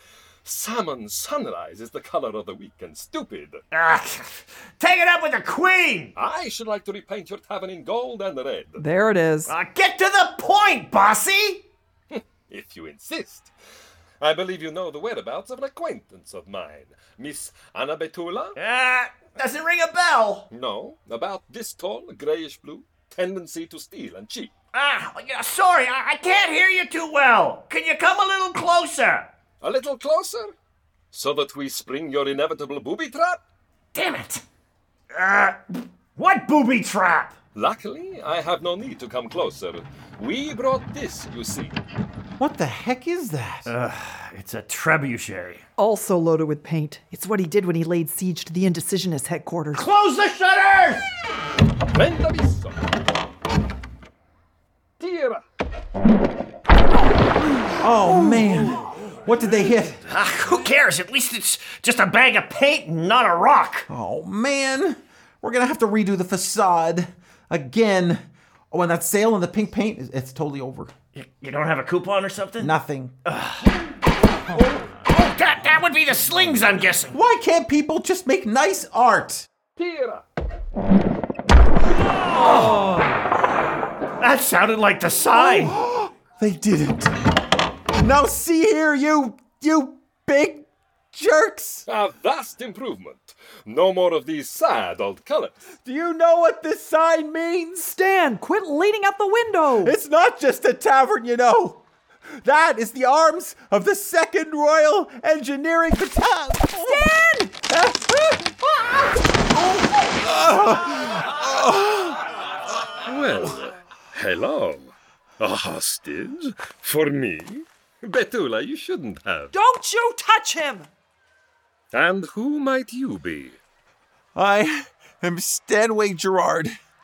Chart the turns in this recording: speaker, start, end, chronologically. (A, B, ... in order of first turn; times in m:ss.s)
0:00.4-0:03.6 A
0:03.7-0:06.1 B
0:06.1-0:08.8 A
0:08.8-0:09.5 C
0:09.5-0:11.7 B
0:12.1-0:13.5 A
0:14.2-0:18.6 A
0:18.6-0:20.5 B
0:20.5-0:24.5 A
0:24.7-0:29.3 B
0:29.6-0:30.5 A
0:31.1-0:33.4 A
0:33.9-0:34.4 B
0:35.1-0:37.4 B
0:37.5-0:41.8 A
0:42.4-0:43.7 D
0:43.6-0:45.6 B
0:45.8-0:49.8 C
0:49.7-0:51.1 B
0:51.9-0:52.8 A
0:55.0-0:55.4 A
0:57.8-1:00.0 D
1:00.1-1:03.9 B
1:03.9-1:10.9 D
1:11.1-1:12.7 B
1:12.6-1:13.1 D
1:13.2-1:13.7 B
1:14.5-1:17.2 B
1:17.1-1:19.5 D
1:19.8-1:20.2 A
1:22.2-1:23.0 B
1:24.2-1:25.7 B
1:25.3-1:27.2 D
1:27.9-1:31.8 D
1:31.8-1:35.6 A
1:35.8-1:38.0 D
1:37.9-1:40.0 C
1:39.8-1:41.8 D
1:42.4-1:47.1 D
1:46.8-1:47.6 C
1:47.6-1:48.9 D
1:50.0-1:52.2 D
1:53.0-1:59.5 A
1:59.5-2:00.9 C
2:01.9-2:03.6 A
2:04.3-2:06.7 D